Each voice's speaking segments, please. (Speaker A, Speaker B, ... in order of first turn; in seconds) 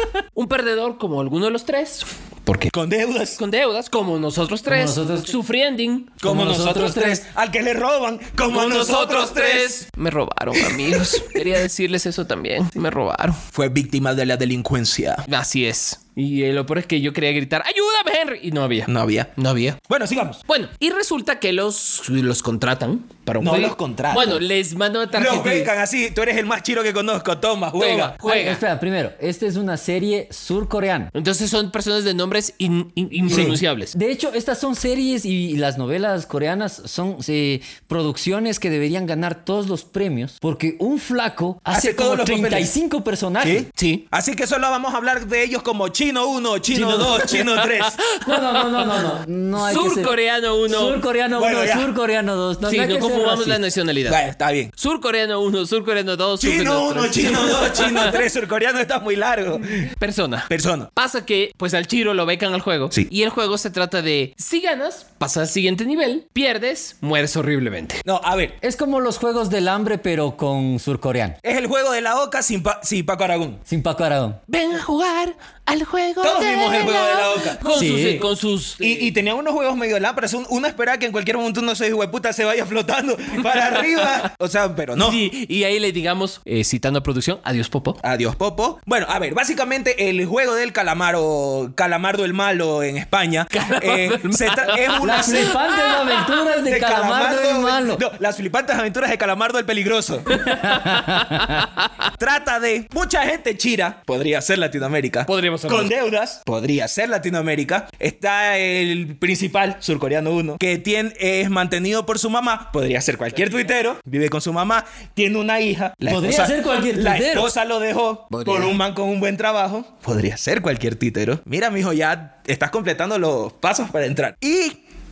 Speaker A: 0.3-2.7, 3.4-6.2, 8.5-13.4, 15.3-19.8, 20.5-25.7, 27.8-28.6, 31.1-33.9, 43.8-44.0, 47.2-51.0, 52.6-54.2, 54.8-58.2, 60.0-68.0, 74.5-79.2, 85.0-88.0, 93.5-96.5, 100.3-101.9, 105.3-105.9
Speaker B: 2.7-3.4, 6.2-9.8, 10.6-11.3, 13.5-15.2, 18.9-19.3, 19.9-20.4, 23.4-24.4, 25.1-28.2, 33.3-33.6, 41.7-42.7, 43.4-48.0, 51.4-51.9, 54.1-54.7, 56.4-59.9, 60.5-60.9, 68.0-68.6, 71.4-73.6, 76.2-77.6, 78.8-85.2, 88.0-95.6, 96.7-100.3, 102.2-124.8
Speaker C: 4.7-5.3, 6.2-7.2, 28.2-31.1, 33.3-43.7, 46.7-47.2, 48.2-50.1, 50.7-53.6, 68.6-71.4, 73.7-74.4, 77.7-78.3, 95.0-98.0, 100.4-101.7, 116.1-117.5